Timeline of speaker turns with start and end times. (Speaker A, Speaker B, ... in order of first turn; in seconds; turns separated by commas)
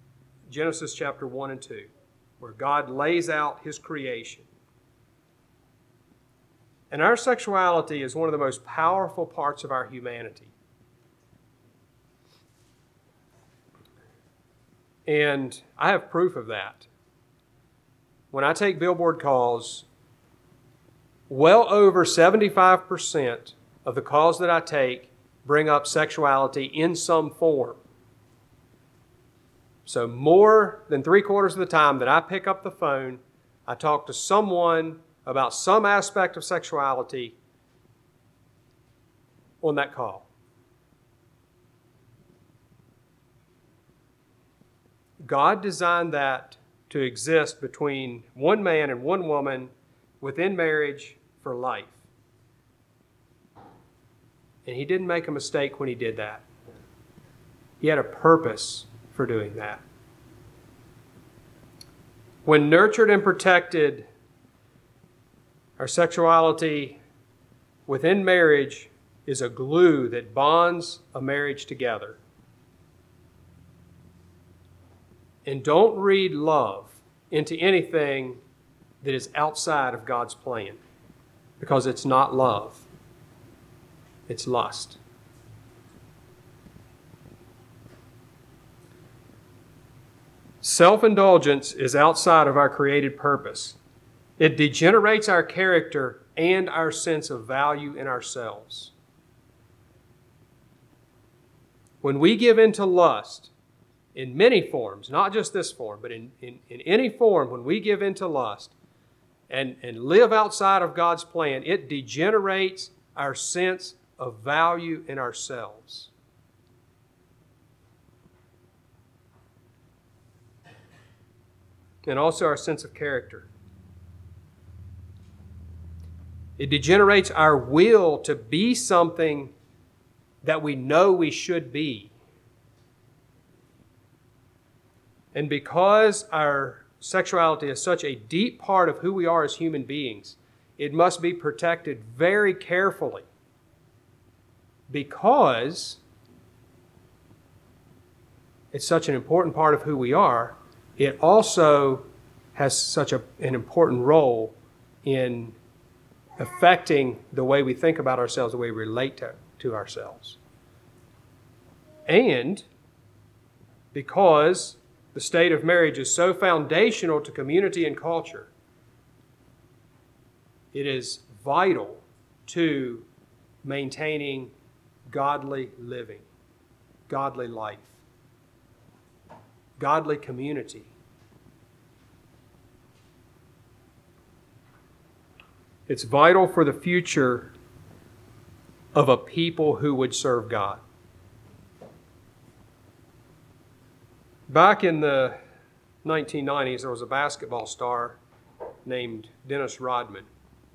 Speaker A: 0.5-4.5, Speaker A: 6.9-10.5, Speaker A: 15.1-16.9, Speaker A: 18.3-19.9, Speaker A: 21.3-27.8, Speaker A: 29.9-37.4, Speaker A: 39.6-40.3, Speaker A: 45.2-52.1, Speaker A: 54.6-56.5, Speaker A: 57.8-59.8, Speaker A: 62.5-64.1, Speaker A: 65.8-67.0, Speaker A: 67.9-72.2, Speaker A: 75.5-78.4, Speaker A: 79.0-80.8, Speaker A: 81.6-82.9, Speaker A: 84.3-85.0, Speaker A: 90.6-93.8, Speaker A: 94.4-98.9, Speaker A: 102.0-103.5, Speaker A: 104.2-108.7, Speaker A: 109.5-116.1, Speaker A: 122.1-123.5, Speaker A: 126.6-129.5, Speaker A: 130.4-132.1, Speaker A: 135.3-143.3, Speaker A: 144.9-146.0, Speaker A: 148.7-155.6, Speaker A: 156.4-160.4, Speaker A: 162.1-162.7, Speaker A: 163.9-168.5, Speaker A: 170.7-173.1, Speaker A: 173.6-174.5, Speaker A: 175.1-176.3, Speaker A: 177.1-178.0, Speaker A: 179.8-180.9, Speaker A: 185.9-187.5, Speaker A: 188.9-190.8, Speaker A: 194.5-195.4, Speaker A: 196.0-198.2, Speaker A: 198.8-200.3